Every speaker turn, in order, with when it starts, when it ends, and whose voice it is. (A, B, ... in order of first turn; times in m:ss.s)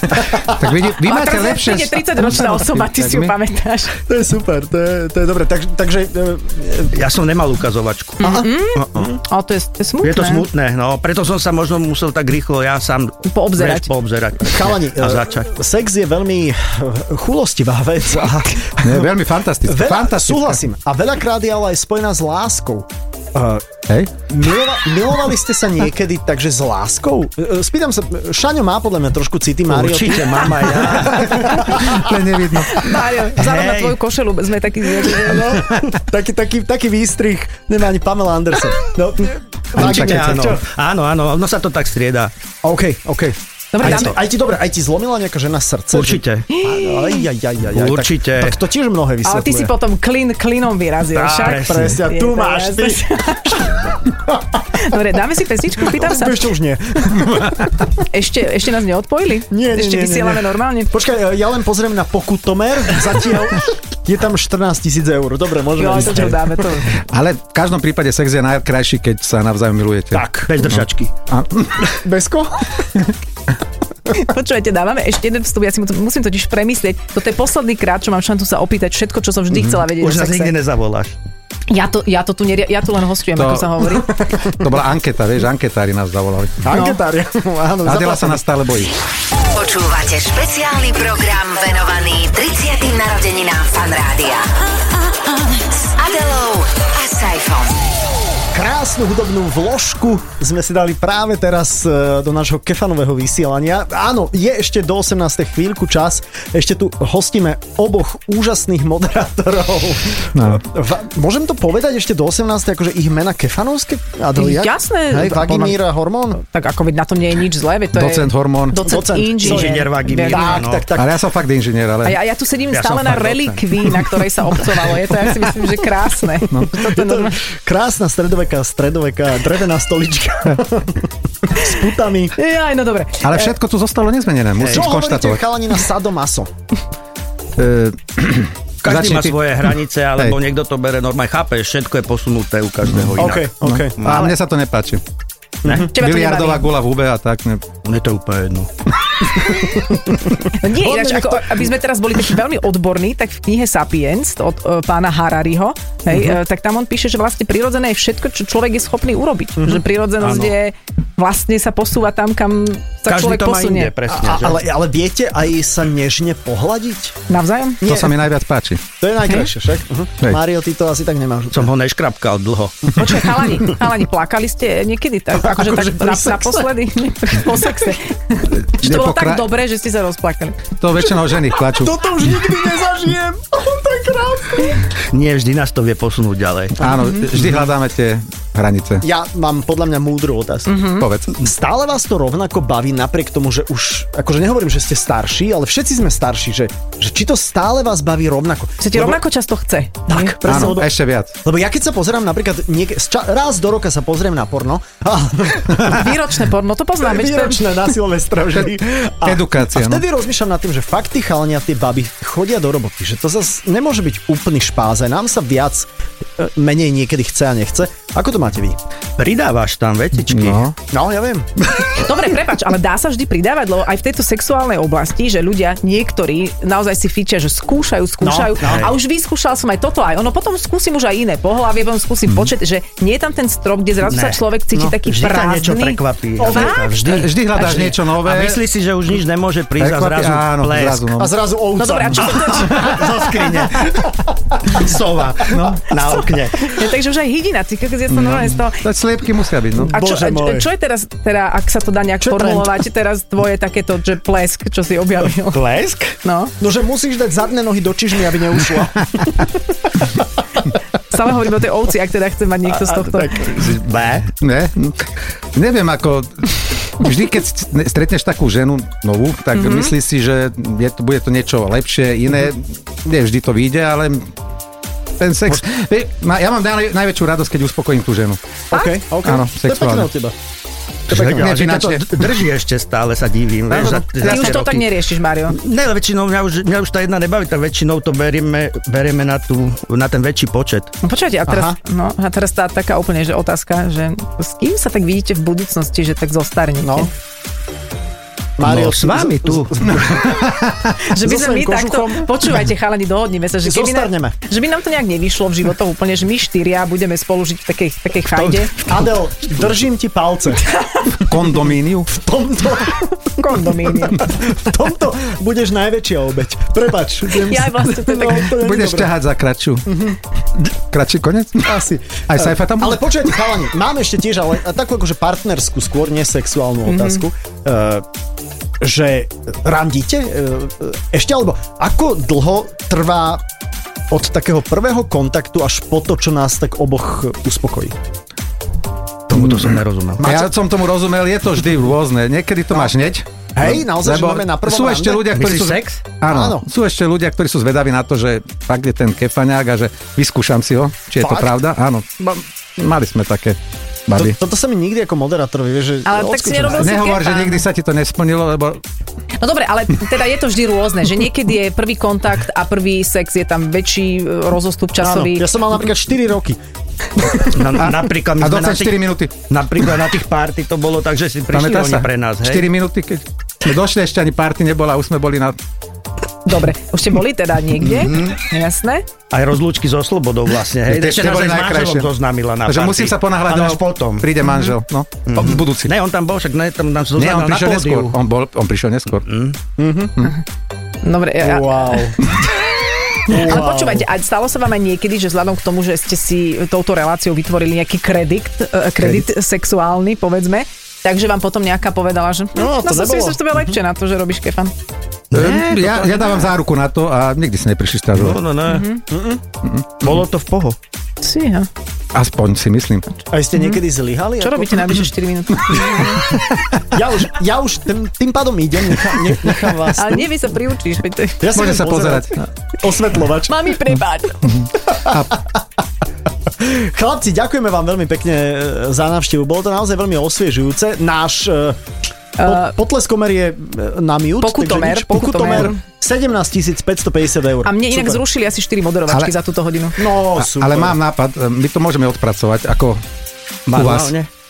0:00.2-0:03.4 A
0:01.0-0:04.0 B
0:04.1-0:07.0 C
0:06.9-0:09.0 D
0:08.2-0:10.4 B
0:08.2-0:09.2 C
0:10.0-0:15.5 D
0:13.3-0:13.9 B
0:14.4-0:19.1 C
0:18.8-0:20.6 A
0:19.7-0:32.1 C
0:29.7-0:31.7 D
0:31.6-0:32.9 A
0:32.7-0:35.7 B
0:33.3-0:34.0 D
0:35.1-0:40.6 C
0:39.8-0:42.3 D
0:39.8-0:40.5 A
0:42.6-0:49.7 C
0:43.7-0:44.2 B
0:43.8-0:44.1 D
0:45.9-0:46.5 D
0:46.5-0:47.3 B
0:47.7-0:48.6 D
0:49.2-0:53.8 B
0:51.1-0:52.0 D
0:51.4-0:54.4 C
0:54.7-0:56.5 B
0:55.8-0:57.5 C
0:58.0-1:00.9 B
0:59.5-1:06.7 C
1:05.8-1:06.9 B
1:06.9-1:12.0 A
1:10.1-1:10.7 C
1:10.4-1:11.1 D
1:12.0-1:12.7 C
1:14.1-1:20.5 B
1:19.5-1:19.8 A
1:19.9-1:21.2 D
1:21.7-1:24.1 B
1:23.4-1:24.0 A
1:24.5-1:26.6 A
1:26.6-1:28.5 C
1:26.7-1:27.0 B
1:27.9-1:28.9 A
1:29.5-1:34.5 E
1:35.8-1:37.8 E
1:38.5-1:56.4 C
1:50.4-1:50.6 A
1:54.4-1:55.8 B
1:56.4-2:00.7 B
1:57.9-1:58.8 A
1:58.7-2:01.2 C
1:59.4-2:00.9 D
2:01.0-2:02.2 A
2:02.0-2:07.4 B
2:02.7-2:04.0 D
2:06.5-2:06.8 A
2:06.7-2:12.4 C
2:12.4-2:13.6 B
2:13.2-2:15.4 A
2:14.6-2:14.9 D
2:14.6-2:16.5 C
2:17.6-2:19.4 A
2:18.8-2:24.3 D
2:22.9-2:25.0 A
2:23.2-2:24.0 C
2:25.8-2:27.6 A
2:25.9-2:26.7 B
2:27.8-2:28.7 D
2:30.4-2:43.9 B
2:30.7-2:31.6 C
2:39.6-2:39.8 C
2:40.2-2:40.5 D
2:43.1-2:44.6 D
2:44.1-2:47.2 C
2:47.3-2:47.8 B
2:47.8-2:48.1 C
2:47.8-2:48.8 A
2:49.0-2:51.7 C
2:51.5-2:52.9 D
2:52.9-3:00.6 B
2:55.3-2:56.7 C
2:58.6-2:59.5 A
3:00.8-3:02.0 A
3:01.6-3:04.9 C
3:05.1-3:06.9 D
3:06.8-3:09.0 A
3:09.0-3:10.8 C
3:10.7-3:11.1 B
3:11.0-3:11.4 A
3:11.4-3:19.2 C
3:18.8-3:20.4 B
3:20.1-3:20.9 C
3:20.4-3:21.3 A
3:21.4-3:26.1 C
3:25.8-3:27.8 B
3:27.0-3:38.8 C
3:29.2-3:30.0 A
3:39.2-3:40.6 D
3:40.3-3:40.8 A
3:40.9-3:41.5 C
3:42.0-3:57.9 B
3:48.2-3:48.9 C
3:48.6-3:49.0 D
3:54.1-4:01.2 D
3:56.4-3:56.8 C
3:57.0-3:58.6 A
3:59.8-4:01.3 A
4:01.2-4:04.3 C
4:01.8-4:03.0 B
4:02.2-4:04.1 D
4:04.7-4:06.8 D
4:05.5-4:05.9 A
4:06.1-4:08.8 B
4:08.1-4:09.9 A
4:09.8-4:10.7 C
4:09.9-4:15.6 B
4:12.2-4:12.7 C
4:15.5-4:16.2 D
4:16.2-4:16.5 B
4:16.6-4:19.3 C
4:21.1-4:23.4 B
4:22.8-4:23.6 C
4:23.3-4:24.3 D
4:24.4-4:34.3 A
4:29.6-4:29.9 B
4:35.2-4:38.4 A
4:38.7-4:40.4 C
4:39.2-4:40.1 A
4:41.1-4:44.9 D
4:41.1-4:41.5 C
4:41.1-4:42.3 A
4:43.7-4:44.7 A
4:43.8-4:45.6 B
4:45.5-4:50.9 D
4:51.0-4:57.1 B
4:51.5-4:51.8 C
4:56.8-4:57.1 C
4:58.6-5:00.6 C
4:58.6-4:59.7 D
4:59.9-5:01.0 A
5:01.1-5:08.8 B
5:01.2-5:02.4 C
5:03.6-5:04.4 C
5:08.4-5:09.0 D
5:08.7-5:10.7 C
5:11.2-5:12.1 A
5:12.1-5:19.1 C
5:13.3-5:14.3 B
5:17.4-5:18.5 B
5:18.5-5:20.0 A
5:19.9-5:20.2 C
5:20.9-5:21.8 A
5:21.6-5:28.1 C
5:22.3-5:23.1 A
5:26.9-5:27.2 B
5:28.8-5:33.4 C
5:34.1-5:38.0 C
5:39.3-5:40.5 D
5:39.4-5:54.4 A
5:43.6-5:45.3 C
5:45.3-5:46.1 D
5:46.3-5:46.7 C
5:51.2-5:51.5 C
5:54.2-5:56.9 C
5:56.1-5:57.7 B
5:56.7-5:58.8 A
5:59.4-6:05.5 B
6:05.0-6:06.6 C
6:07.5-6:12.7 D
6:07.9-6:09.4 A
6:11.5-6:15.6 A
6:16.4-6:19.0 B
6:18.0-6:18.4 D
6:19.3-6:24.3 D
6:20.9-6:22.1 A
6:22.7-6:25.9 A
6:25.3-6:28.2 D
6:27.2-6:29.2 A
6:29.2-6:29.6 D
6:29.8-6:30.2 C
6:31.0-6:32.2 B
6:31.4-6:32.2 C
6:33.3-6:34.0 C
6:33.3-6:44.7 B
6:42.6-6:43.8 C
6:45.3-6:46.4 D
6:45.3-6:48.4 A
6:48.2-6:48.9 D
6:48.7-6:49.0 B
6:49.1-6:49.4 C
6:49.6-6:50.2 A
6:50.0-6:50.8 D
6:51.2-6:51.7 B
6:52.1-6:53.1 A
6:53.3-6:55.0 C
6:53.5-6:53.8 B
6:54.4-6:56.3 B
6:56.8-7:00.3 C
7:00.0-7:01.4 B
7:01.4-7:03.7 C
7:01.5-7:02.5 A
7:03.5-7:04.6 B
7:04.5-7:05.4 A
7:05.1-7:05.4 C
7:06.6-7:11.8 C
7:12.4-7:12.7 B
7:12.4-7:18.2 C
7:14.4-7:15.8 B
7:17.6-7:20.0 B
7:20.0-7:21.0 C
7:20.4-7:23.0 A
7:23.7-7:24.3 D
7:23.7-7:24.2 A